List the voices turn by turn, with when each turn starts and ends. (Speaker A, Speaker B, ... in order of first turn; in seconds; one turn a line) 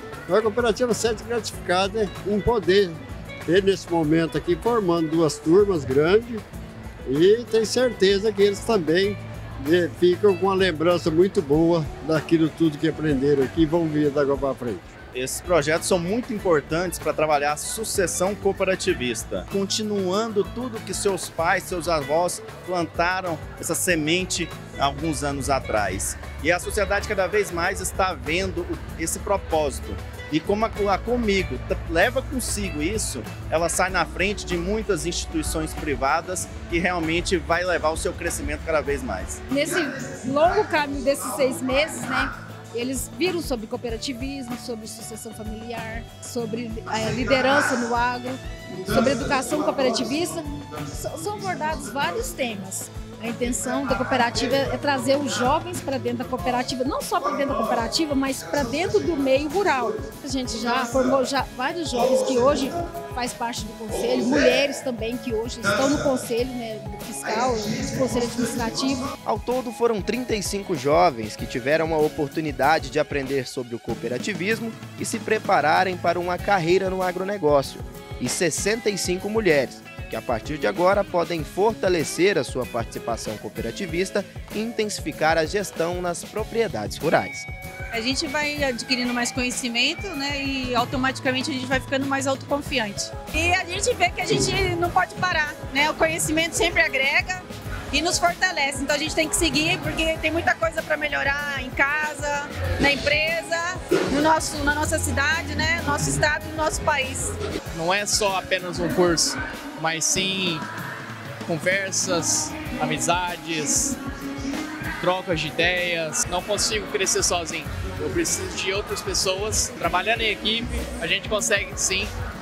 Speaker A: 0.3-6.4
Speaker A: 7.1-14.9
Speaker B: 15.1-39.4
Speaker C: 39.5-69.1
Speaker D: 69.2-87.5
Speaker E: 87.9-107.3
Speaker F: 107.7-110.7
Speaker F: 111.5-114.0
Speaker F: 115.0-122.1